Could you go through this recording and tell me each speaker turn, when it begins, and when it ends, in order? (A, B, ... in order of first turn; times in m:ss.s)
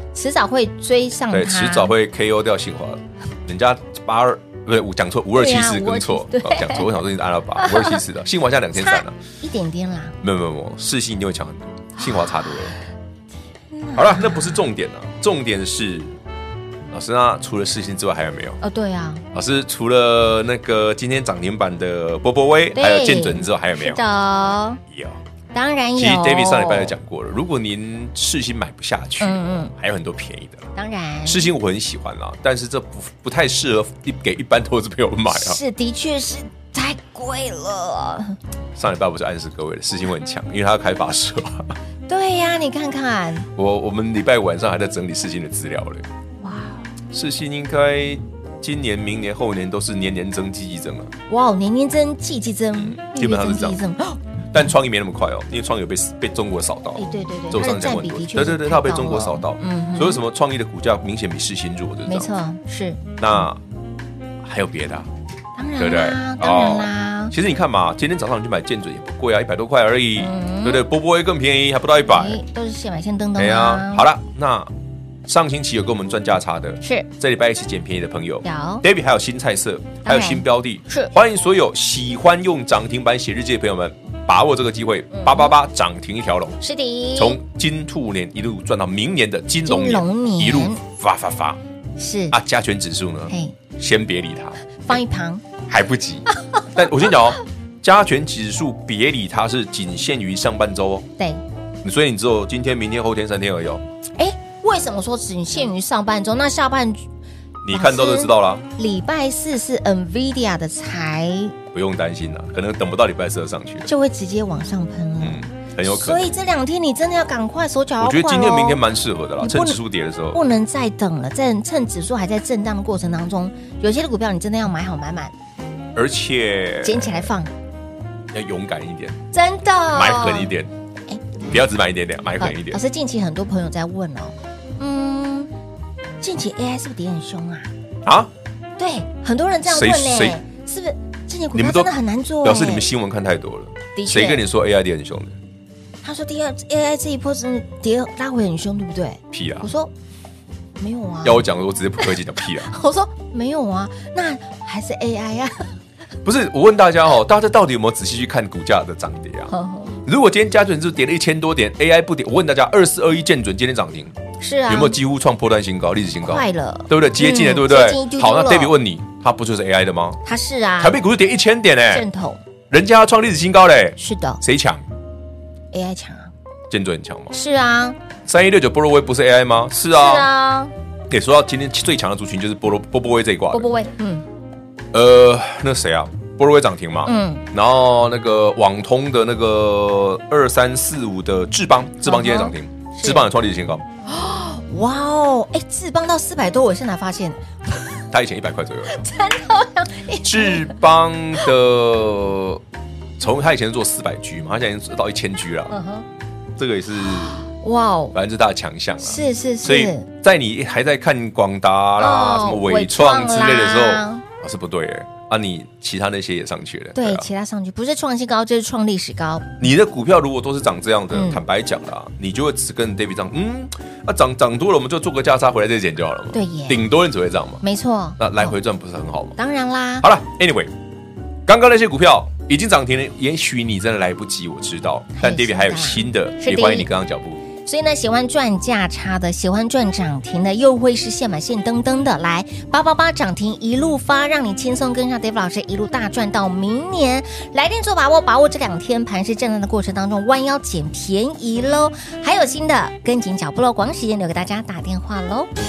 0:00.1-0:01.9 A
0:01.3-0:09.2 B
0:05.4-0:06.9 A
0:07.6-0:08.0 A
0:08.8-0:10.2 A
0:10.2-0:12.8 B
0:12.0-0:12.8 A
0:13.7-0:14.6 A
0:13.9-0:16.2 B
0:16.9-0:18.6 B
0:18.6-0:19.2 A
0:19.3-0:24.0 B
0:22.8-0:24.8 A
0:24.9-0:25.2 B
0:25.5-0:26.9 A
0:26.0-0:30.7 B
0:29.2-0:29.7 A
0:30.8-0:31.5 A
0:31.2-0:35.6 B
0:35.3-0:38.4 A
0:38.8-0:41.8 B
0:42.1-0:43.5 A
0:43.6-0:46.1 B
0:46.4-0:46.8 A
0:47.1-0:51.1 B
0:51.3-0:54.2 A
0:52.8-0:53.8 B
0:54.5-1:02.3 B
0:57.0-1:00.2 A
1:02.1-1:03.0 A
1:03.2-1:03.6 B
1:04.4-1:05.1 B
1:05.6-1:07.3 A
1:05.8-1:12.4 B
1:10.2-1:10.8 A
1:12.1-1:14.1 A
1:13.4-1:14.7 B
1:15.2-1:26.6 B
1:16.8-1:17.1 A
1:18.4-1:18.8 A
1:20.0-1:21.1 A
1:25.1-1:25.6 A
1:26.6-1:27.4 A
1:27.2-1:31.6 B
1:29.6-1:30.8 A
1:32.0-1:32.4 A
1:32.3-1:35.0 B
1:33.3-1:33.6 A
1:34.8-1:35.4 A
1:35.7-1:41.1 B
1:41.8-1:43.8 B
1:44.2-1:47.0 A
1:47.6-1:48.6 B
1:47.7-1:51.6 A
1:51.7-1:53.9 B
1:53.8-1:58.8 A
1:55.2-1:56.3 B
1:58.0-2:00.4 B
1:59.4-1:59.8 A
2:00.3-2:05.3 A
2:05.9-2:07.3 B
2:06.8-2:07.5 A
2:08.3-2:09.2 B
2:09.3-2:10.5 A
2:09.9-2:10.7 B
2:11.4-2:12.8 B
2:12.4-2:15.5 A
2:16.2-2:17.7 A
2:18.0-2:18.3 B
2:18.8-2:22.9 A
2:19.6-2:20.4 B
2:21.5-2:21.9 B
2:22.4-2:25.4 B
2:24.0-2:24.4 A
2:26.0-2:29.9 A
2:29.3-2:29.7 B
2:30.8-2:31.4 A
2:31.2-2:32.7 B
2:32.0-2:35.8 A
2:36.2-2:39.5 B
2:39.5-2:40.0 A
2:40.0-2:44.2 B
2:44.4-2:45.0 A
2:44.7-2:50.2 B
2:46.2-2:48.8 A
2:50.2-2:51.0 A
2:50.8-2:52.1 B
2:51.9-2:52.4 A
2:52.7-2:54.8 B
2:54.0-2:54.4 A
2:55.7-2:56.3 A
2:56.7-2:57.3 B
2:57.3-2:58.0 A
2:58.2-3:00.3 B
2:59.9-3:00.7 A
3:01.1-3:03.7 B
3:03.5-3:04.2 A
3:04.9-3:13.8 B
3:07.0-3:07.4 A
3:12.0-3:13.3 A
3:14.1-3:18.0 A
3:18.1-3:19.0 B
3:18.9-3:20.8 A
3:20.2-3:22.6 B
3:23.2-3:25.8 B
3:25.7-3:26.1 A
3:26.6-3:27.4 B
3:27.2-3:28.2 A
3:28.1-3:37.3 B
3:29.0-3:30.1 A
3:32.0-3:34.2 A
3:37.0-3:39.5 A
3:39.6-3:47.6 B
3:41.1-3:41.4 A
3:46.3-3:46.8 A
3:47.6-3:48.5 A
3:48.2-3:49.4 B
3:49.4-3:50.1 A
3:50.0-3:50.7 B
3:51.4-3:57.4 B
3:55.2-3:56.9 A
3:57.6-4:15.5 A